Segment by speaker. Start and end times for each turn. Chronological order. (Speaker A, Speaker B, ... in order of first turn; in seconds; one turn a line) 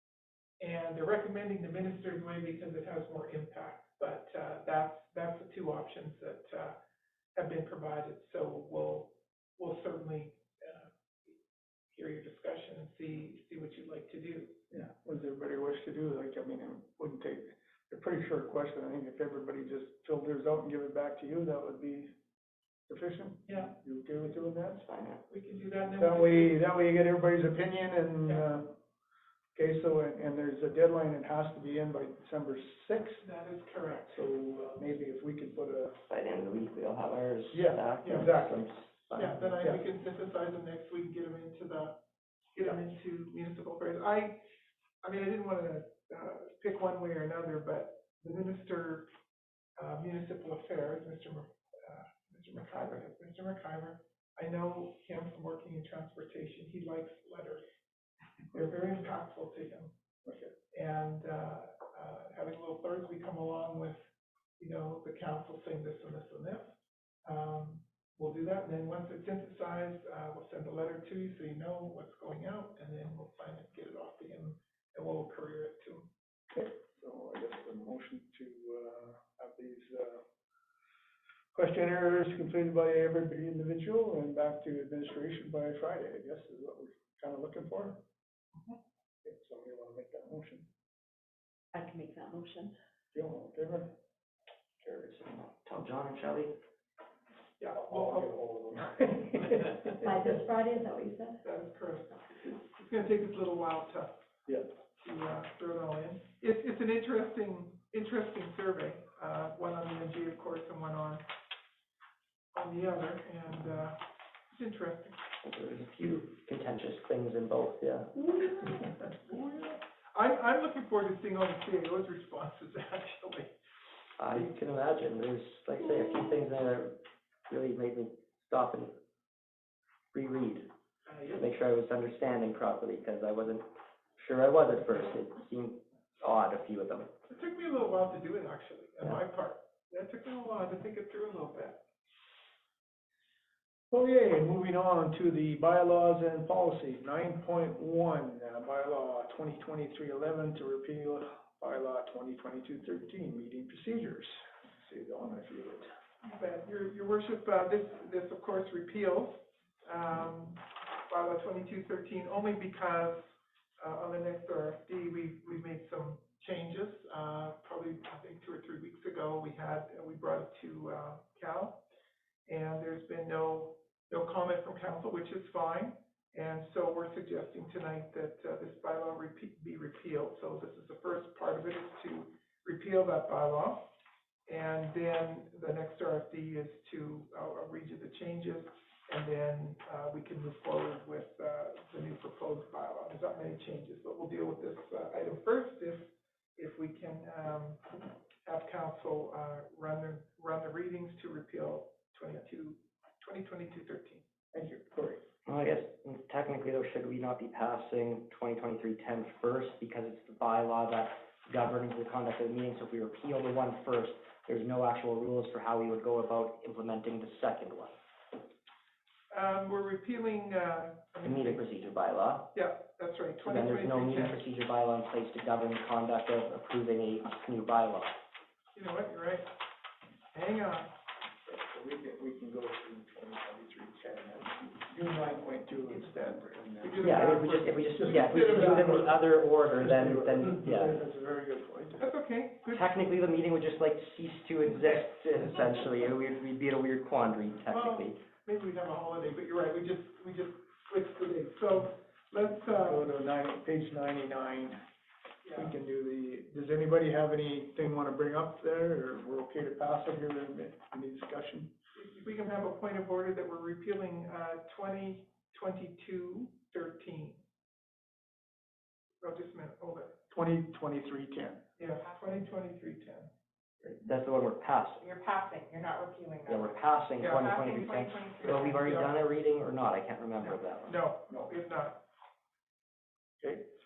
Speaker A: 0.6-6.8
Speaker A: 7.3-11.3
Speaker A: 11.9-14.6
Speaker B: 14.7-22.1
Speaker B: 22.9-24.9
Speaker A: 23.5-23.7
Speaker C: 24.8-25.2
Speaker A: 25.3-26.6
Speaker B: 26.0-28.7
Speaker B: 29.5-33.2
Speaker A: 33.2-34.2
Speaker B: 34.1-35.9
Speaker C: 36.1-39.4
Speaker B: 37.5-38.6
Speaker A: 38.0-38.3
Speaker A: 39.1-42.0
Speaker B: 39.4-39.8
Speaker A: 42.5-44.4
Speaker A: 45.0-49.1
Speaker A: 49.8-57.6
Speaker A: 58.5-59.9
Speaker B: 60.2-60.5
Speaker A: 60.7-64.0
Speaker A: 64.6-66.7
Speaker A: 67.2-76.1
Speaker B: 76.5-80.2
Speaker B: 81.5-88.0
Speaker B: 89.2-90.7
Speaker D: 91.7-92.7
Speaker B: 93.1-93.9
Speaker C: 95.0-96.5
Speaker A: 97.6-98.4
Speaker B: 97.7-99.7
Speaker D: 99.9-101.4
Speaker A: 101.4-104.1
Speaker A: 105.0-111.2
Speaker A: 112.5-115.2
Speaker C: 115.4-118.2
Speaker A: 119.1-123.5
Speaker C: 124.2-126.9
Speaker C: 127.5-128.9
Speaker C: 130.1-130.7
Speaker A: 131.1-131.5
Speaker C: 131.3-133.7
Speaker C: 134.2-137.1
Speaker A: 137.3-141.8
Speaker B: 143.9-155.9
Speaker A: 156.2-171.8
Speaker A: 172.5-183.8
Speaker A: 184.5-204.2
Speaker B: 204.5-205.2
Speaker C: 205.4-217.9
Speaker A: 219.3-221.7
Speaker C: 221.2-222.5
Speaker A: 222.5-224.4
Speaker C: 223.4-228.1
Speaker A: 228.7-229.5
Speaker A: 230.3-230.9
Speaker B: 231.4-239.1
Speaker A: 236.8-239.2
Speaker C: 237.0-241.0
Speaker B: 239.8-242.1
Speaker A: 242.0-242.9
Speaker C: 242.7-248.2
Speaker A: 247.7-253.1
Speaker B: 252.7-254.8
Speaker A: 255.4-255.7
Speaker B: 255.5-261.7
Speaker A: 261.9-267.4
Speaker A: 269.2-270.1
Speaker B: 270.3-271.6
Speaker A: 271.8-273.3
Speaker C: 274.0-275.0
Speaker D: 275.0-278.8
Speaker C: 276.4-280.9
Speaker A: 277.2-279.1
Speaker A: 280.4-282.0
Speaker B: 283.4-283.6